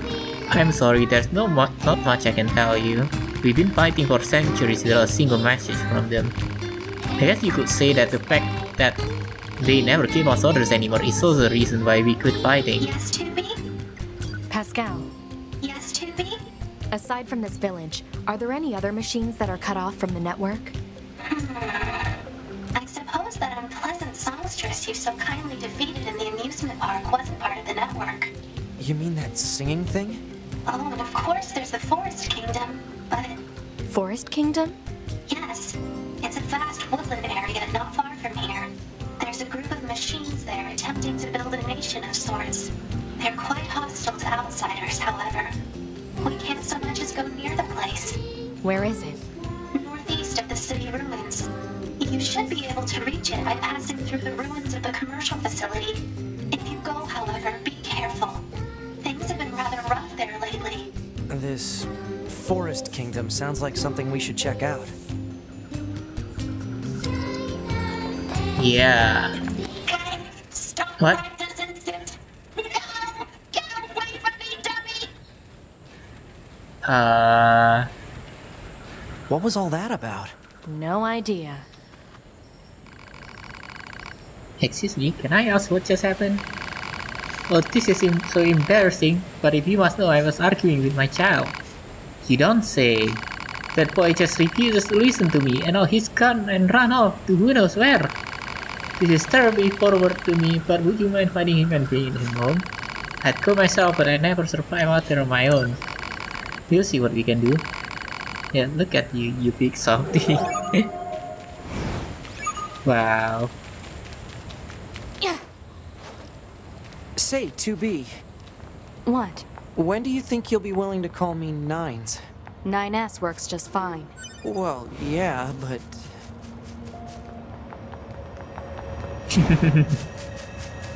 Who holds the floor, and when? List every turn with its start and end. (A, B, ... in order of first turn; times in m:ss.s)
0:00.5-0:06.4 A
0:07.2-0:09.0 A
0:09.6-0:12.9 A
0:12.8-0:13.6 B
0:14.5-0:15.1 C
0:15.6-0:16.4 B
0:16.9-0:20.8 C
0:21.3-0:22.2 B
0:22.8-0:28.3 B
0:28.8-0:30.2 D
0:30.6-0:33.4 B
0:33.9-0:34.8 C
0:35.3-0:45.6 B
0:46.2-0:48.2 B
0:48.6-0:49.2 C
0:49.7-0:58.5 B
0:59.0-1:00.9 B
1:01.3-1:04.9 D
1:08.6-1:09.3 A
1:09.9-1:15.1 B
1:16.8-1:17.9 A
1:19.3-1:20.3 D
1:20.6-1:21.7 C
1:24.6-1:26.4 A
1:27.5-1:31.6 A
1:32.2-1:38.2 A
1:39.0-1:42.7 A
1:43.2-1:45.8 A
1:46.7-1:47.7 A
1:48.5-1:50.9 A
1:52.8-1:53.5 A
1:57.2-1:58.2 D
1:59.0-1:59.5 C
1:59.8-2:02.2 D
2:02.6-2:04.1 C
2:04.4-2:06.2 D
2:09.3-2:10.0 A